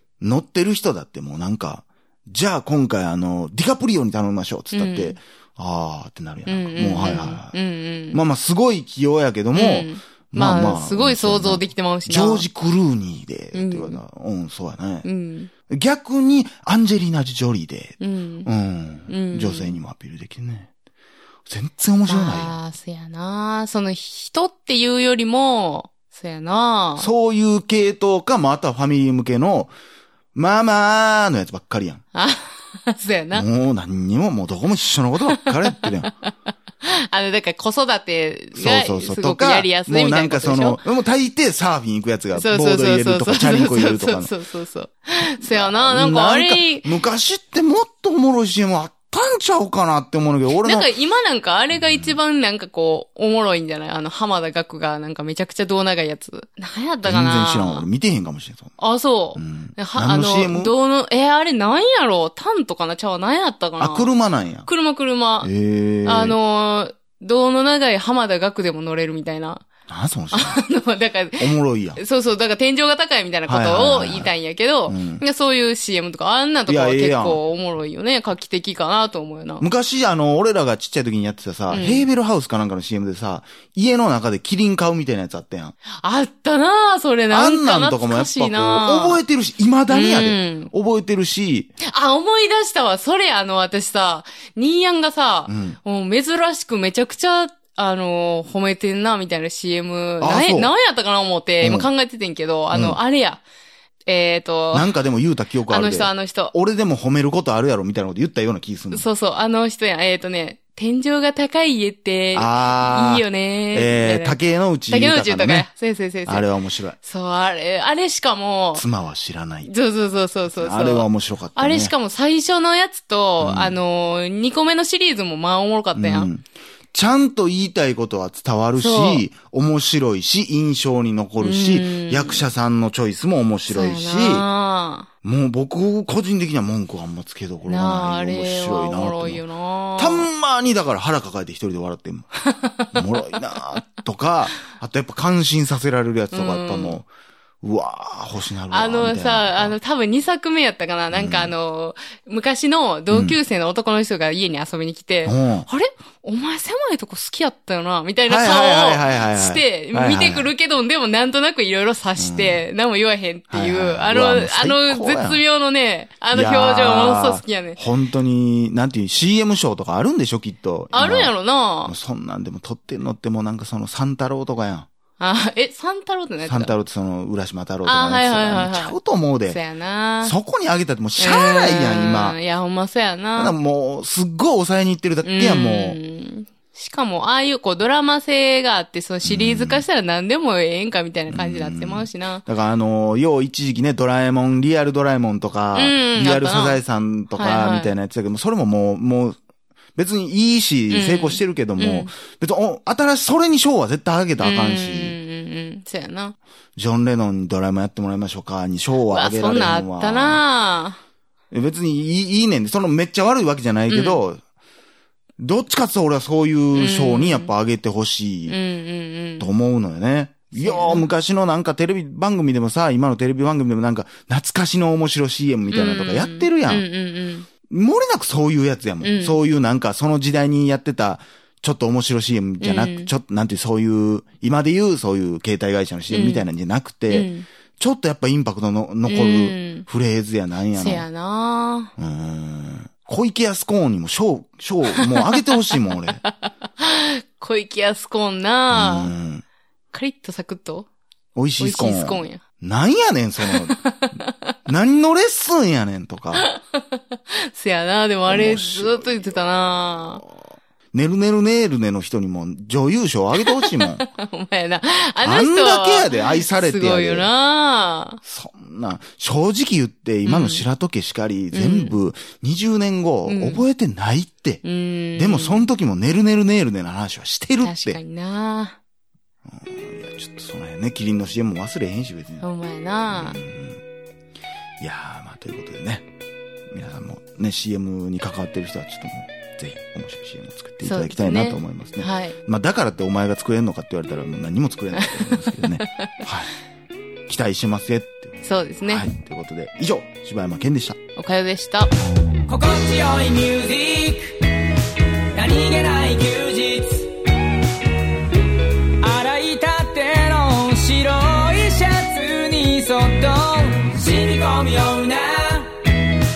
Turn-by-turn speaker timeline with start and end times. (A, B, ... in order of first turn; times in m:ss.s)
0:00.2-0:07.6 A
0:04.7-0:05.2 B
0:06.5-0:08.2 B
0:08.1-0:15.1 A
0:09.6-0:12.5 B
0:13.5-0:14.0 B
0:15.0-0:15.5 B
0:15.7-0:20.7 A
0:18.0-0:18.5 B
0:19.1-0:19.8 B
0:21.5-0:22.6 A
0:22.1-0:27.1 B
0:27.0-0:29.7 A
0:30.4-0:32.0 A
0:32.1-0:33.4 B
0:33.3-0:36.1 A
0:35.3-0:36.1 B
0:36.8-0:40.8 B
0:38.6-0:44.3 A
0:42.4-0:46.9 B
0:45.2-0:50.9 A
0:50.6-0:57.9 B
0:51.7-0:52.2 A
0:57.0-0:58.8 A
0:58.8-1:04.1 B
0:59.4-1:00.7 A
1:03.8-1:04.7 A
1:04.7-1:05.5 B
1:05.4-1:06.4 A
1:06.1-1:09.7 B
1:09.9-1:10.6 A
1:10.3-1:19.6 B
1:11.4-1:12.0 A
1:13.5-1:14.3 A
1:14.9-1:15.2 A
1:16.7-1:17.4 A
1:19.6-1:25.8 A
1:21.7-1:22.1 B
1:26.0-1:29.2 B
1:27.3-1:31.7 A
1:29.9-1:30.7 B
1:31.8-1:43.4 B
1:35.5-1:35.8 A
1:40.2-1:40.7 A
1:41.6-1:41.9 A
1:42.7-1:43.0 A
1:44.1-1:44.9 B
1:44.7-1:49.0 A
1:45.7-1:46.5 B
1:48.9-1:58.8 B
1:52.4-1:55.7 A
1:56.3-1:57.0 A
1:58.8-1:59.7 A
1:59.6-2:06.3 B
2:00.6-2:01.9 A
2:03.4-2:03.8 A
2:06.0-2:14.5 A
2:08.8-2:09.2 B
2:11.4-2:12.4 B
2:13.7-2:15.1 B
2:15.2-2:19.4 A
2:17.7-2:20.3 B
2:20.0-2:22.3 A
2:22.5-2:23.0 B
2:22.9-2:27.1 A
2:26.3-2:27.0 B
2:27.6-2:29.8 A
2:28.7-2:47.8 B
2:31.1-2:31.5 A
2:33.1-2:33.4 A
2:35.3-2:35.7 A
2:38.3-2:40.5 A
2:42.2-2:42.6 A
2:43.5-2:45.4 A
2:46.3-2:51.3 A
2:50.9-2:51.9 B
2:51.8-2:54.9 A
2:55.2-2:56.8 B
2:56.4-2:59.6 A
2:57.9-2:59.0 B
2:59.5-3:00.4 B
3:00.2-3:02.4 A
3:01.2-3:03.5 B
3:03.4-3:06.0 A
3:05.2-3:12.4 B
3:09.2-3:09.8 A
3:11.3-3:19.4 A
3:15.8-3:16.8 B
3:17.4-3:17.9 B
3:20.0-3:25.2 A
3:20.9-3:22.1 B
3:24.4-3:26.4 B
3:26.8-3:30.4 A
3:29.1-3:31.0 B
3:31.5-3:34.4 A
3:33.9-3:34.2 B
3:35.4-3:38.6 A
3:36.8-3:37.5 B
3:38.5-3:39.5 B
3:39.4-3:46.8 A
3:40.5-3:41.1 B
3:45.7-3:47.5 B
3:47.7-4:01.1 A
3:49.0-3:49.4 B
3:52.6-3:53.1 B
3:56.1-3:56.5 B
3:57.1-3:57.5 B
3:59.1-3:59.8 B
4:00.7-4:01.9 B
4:02.0-4:06.2 A
4:06.2-4:09.1 B
4:08.7-4:09.4 A
4:09.9-4:10.9 B
4:11.4-4:13.8 A
4:11.6-4:12.4 B
4:13.5-4:14.6 B
4:14.7-4:16.5 A
4:16.4-4:20.2 B
4:18.3-4:24.1 A
4:23.4-4:28.2 B
4:25.2-4:27.3 A
4:28.2-4:34.6 A
4:30.2-4:30.6 B
4:31.5-4:32.0 B
4:33.3-4:33.6 B
4:34.6-4:35.7 B
4:35.2-4:38.0 A
4:37.6-4:38.8 B
4:39.5-4:42.5 A
4:42.4-4:43.4 B
4:43.1-4:43.8 A
4:44.8-4:46.1 A
4:46.7-4:56.5 A
4:50.8-4:52.4 B
4:55.0-4:56.1 B
4:57.3-5:01.0 A
4:58.4-4:59.1 B
5:01.2-5:01.9 B
5:02.5-5:04.4 C
5:05.3-5:07.1 C
5:09.0-5:15.9 C